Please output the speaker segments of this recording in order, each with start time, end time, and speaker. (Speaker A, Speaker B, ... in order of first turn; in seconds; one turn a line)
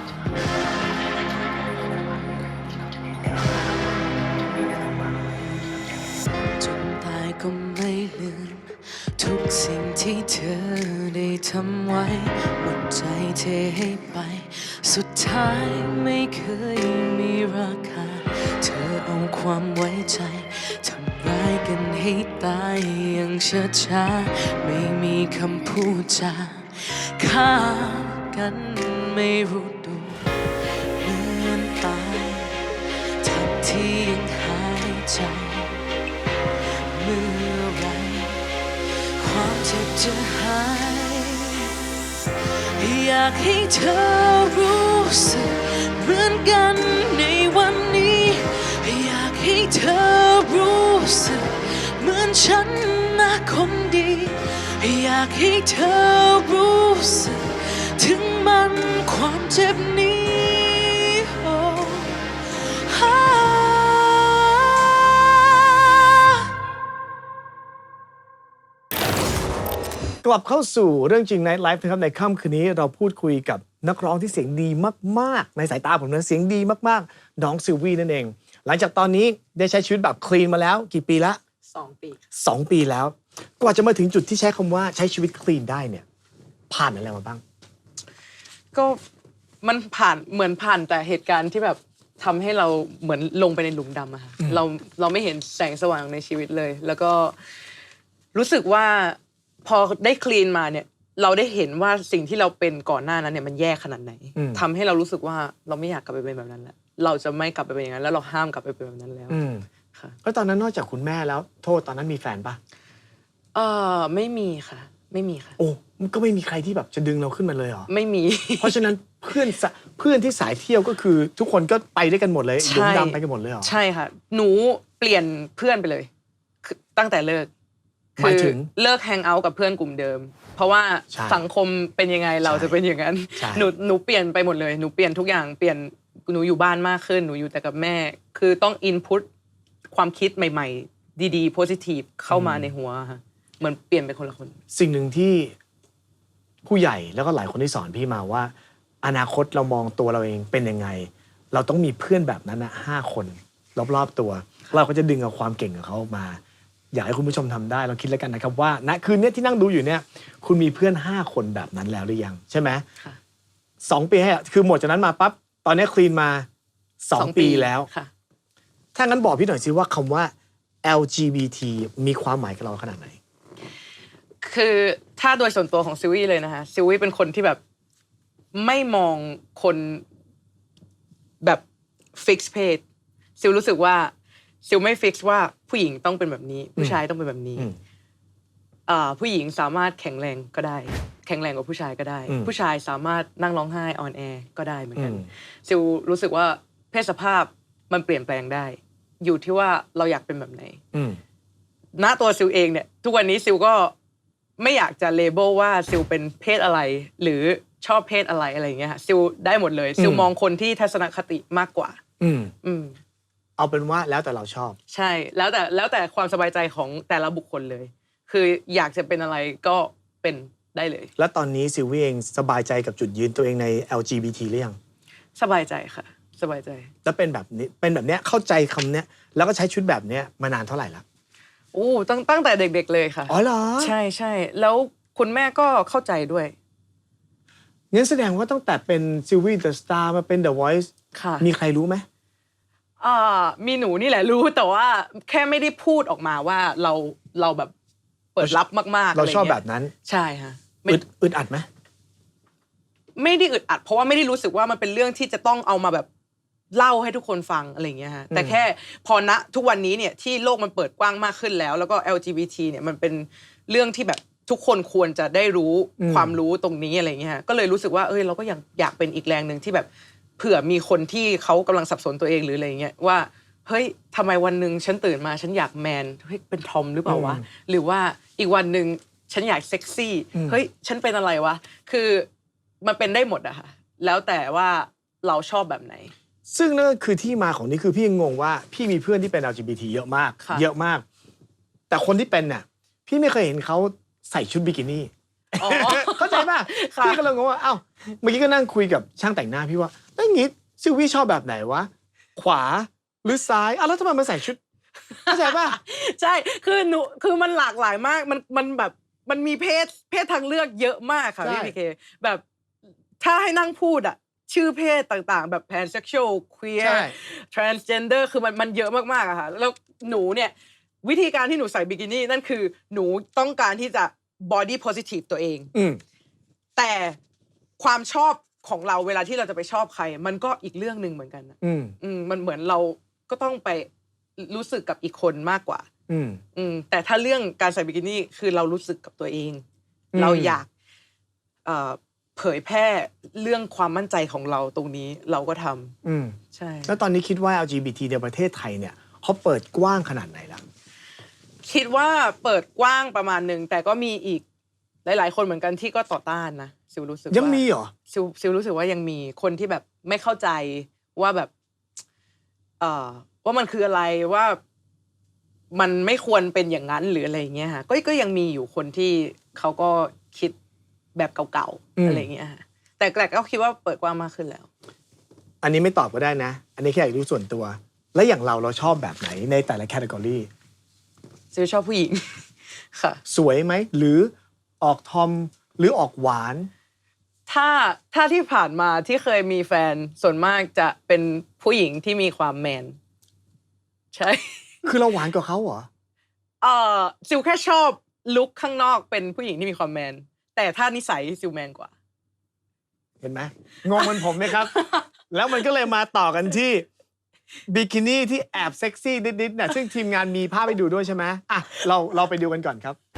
Speaker A: 6.6-30.4
Speaker A: 31.0-32.7
Speaker A: 33.2-35.8
Speaker A: 36.8-41.8
Speaker A: 42.8-66.3
Speaker B: 70.2-81.4
Speaker C: 81.7-82.2
Speaker B: 82.3-86.0
Speaker B: 86.7-87.4
Speaker C: 88.7-89.0
Speaker C: 89.6-97.4
Speaker C: 98.3-109.4
Speaker B: 104.4-104.6
Speaker B: 109.3-109.7
Speaker B: 110.2-112.6
Speaker C: 113.5-115.6
Speaker B: 115.6-117.9
Speaker C: 117.9-118.9
Speaker B: 118.6-123.7
Speaker C: 122.6-126.1
Speaker C: 126.6-127.5
Speaker C: 128.2-139.3
Speaker B: 128.2-128.7
Speaker B: 131.1-131.4
Speaker B: 132.4-132.8
Speaker B: 133.3-133.7
Speaker C: 139.9-144.6
Speaker B: 142.3-142.7
Speaker B: 144.7-145.5
Speaker B: 146.6-156.4
Speaker B: 156.9-162.8
Speaker B: 163.8-166.5
Speaker B: 167.0-167.9
Speaker C: 167.1-168.1
Speaker B: 168.9-170.3
Speaker B: 170.8-173.2
Speaker C: 174.4-177.6
Speaker C: 178.5-180.0
Speaker C: 182.1-182.8
Speaker C: 183.4-184.1
Speaker C: 184.6-187.7
Speaker C: 188.9-200.8
Speaker B: 194.9-195.3
Speaker B: 200.9-201.2
Speaker C: 202.0-203.9
Speaker C: 204.6-212.0
Speaker B: 210.0-210.3
Speaker B: 212.2-212.5
Speaker C: 212.6-213.0
Speaker B: 213.6-214.8
Speaker C: 214.9-221.1
Speaker B: 221.2-224.8
Speaker C: 225.3-226.9
Speaker B: 227.0-231.0
Speaker C: 231.7-236.5
Speaker B: 233.3-233.9
Speaker B: 237.9-242.0
Speaker C: 241.1-241.5
Speaker C: 243.0-247.7
Speaker C: 248.3-251.0
Speaker B: 249.1-249.9
Speaker B: 250.9-251.7
Speaker C: 253.2-256.1
Speaker C: 256.7-282.3
Speaker B: 258.3-258.6
Speaker B: 266.0-266.4
Speaker B: 277.1-277.4
Speaker C: 282.8-286.1
Speaker B: 286.5-291.1
Speaker C: 290.4-290.7
Speaker B: 291.9-304.6
Speaker C: 295.6-297.2
Speaker C: 305.2-312.4
Speaker B: 305.3-305.8
Speaker B: 311.4-311.7
Speaker C: 313.2-325.7
Speaker B: 316.8-317.1
Speaker B: 325.7-326.0
Speaker C: 326.8-327.2
Speaker C: 327.8-335.9
Speaker B: 331.6-331.9
Speaker B: 336.1-336.4
Speaker C: 336.6-339.6
Speaker B: 340.1-340.6
Speaker C: 340.2-340.7
Speaker C: 341.6-345.9
Speaker B: 346.0-350.6
Speaker C: 346.5-346.9
Speaker C: 351.6-354.4
Speaker C: 355.1-361.5
Speaker B: 357.3-357.9
Speaker C: 362.8-364.6
Speaker C: 365.7-370.6
Speaker C: 371.1-374.7
Speaker B: 372.0-372.3
Speaker B: 375.6-380.5
Speaker C: 381.5-383.2
Speaker B: 383.2-386.7
Speaker C: 387.5-393.0
Speaker C: 394.1-394.6
Speaker B: 394.8-395.9
Speaker C: 396.6-401.9
Speaker B: 403.2-406.9
Speaker B: 407.7-413.0